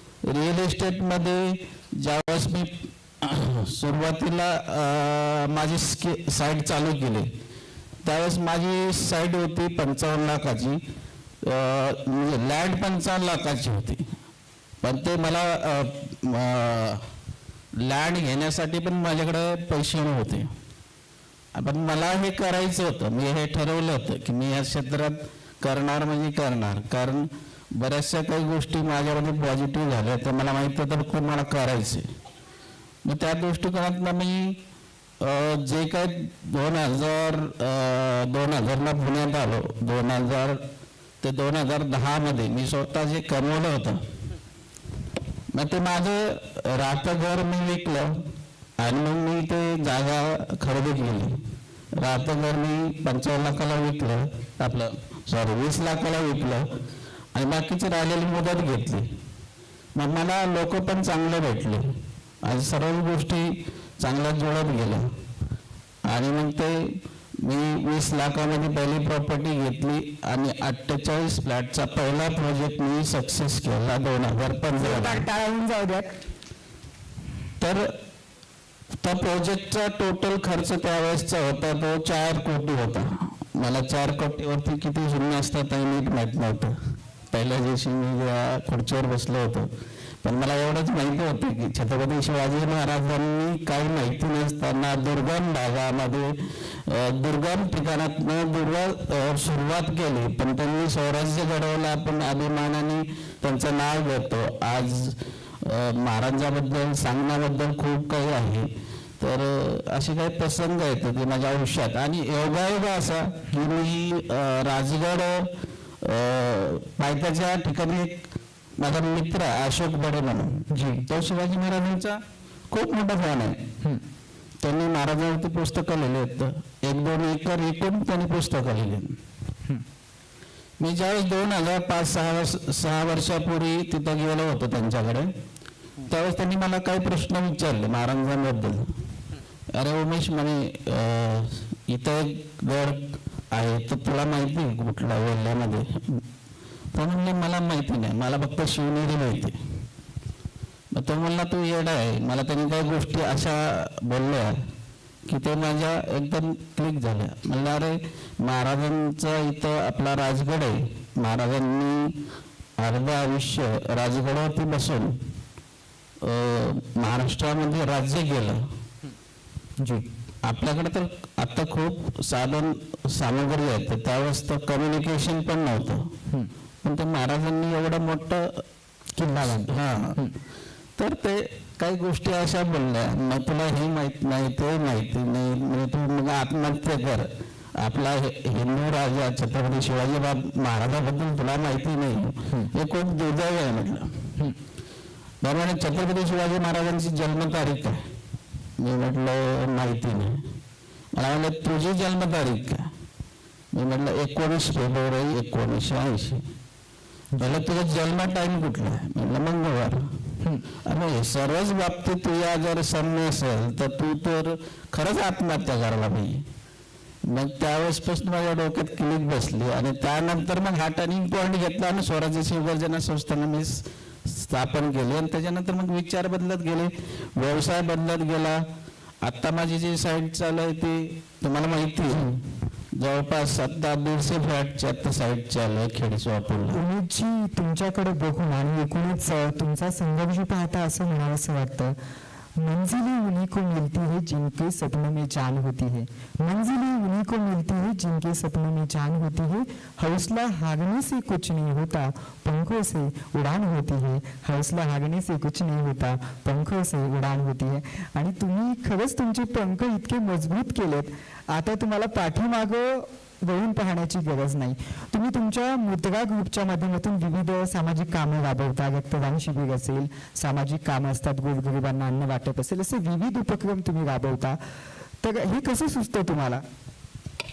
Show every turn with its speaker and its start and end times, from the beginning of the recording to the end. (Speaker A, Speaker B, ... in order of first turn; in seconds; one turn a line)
Speaker A: 0.2-7.3
Speaker A: 8.0-10.8
Speaker A: 11.4-14.0
Speaker A: 14.8-17.1
Speaker A: 17.8-20.5
Speaker A: 21.6-32.1
Speaker A: 33.0-34.6
Speaker A: 35.2-40.6
Speaker A: 41.2-44.1
Speaker A: 45.5-48.2
Speaker A: 48.8-51.4
Speaker A: 52.0-56.7
Speaker A: 57.3-59.1
Speaker A: 59.9-65.1
Speaker A: 66.0-75.2
Speaker B: 74.8-76.1
Speaker A: 77.6-77.9
Speaker A: 79.0-86.8
Speaker A: 87.3-89.7
Speaker A: 90.2-96.3
Speaker A: 96.9-108.7
Speaker A: 109.2-118.2
Speaker A: 118.8-122.2
Speaker B: 120.7-121.1
Speaker A: 122.7-123.6
Speaker A: 124.6-129.2
Speaker A: 130.8-135.3
Speaker A: 136.1-138.9
Speaker A: 139.7-146.2
Speaker A: 146.9-149.6
Speaker A: 150.9-154.6
Speaker A: 155.3-162.2
Speaker A: 162.8-165.2
Speaker A: 166.2-168.7
Speaker B: 169.8-170.1
Speaker A: 170.4-176.1
Speaker A: 176.8-178.6
Speaker B: 179.2-180.3
Speaker A: 179.3-180.2
Speaker A: 181.0-194.2
Speaker A: 195.4-198.0
Speaker A: 198.8-200.4
Speaker A: 201.1-202.9
Speaker A: 203.7-206.4
Speaker B: 207.3-207.6
Speaker A: 207.4-210.1
Speaker A: 210.9-216.4
Speaker A: 217.2-228.6
Speaker A: 229.2-232.4
Speaker A: 233.0-236.8
Speaker B: 236.7-242.0
Speaker B: 242.6-274.6
Speaker B: 275.2-276.6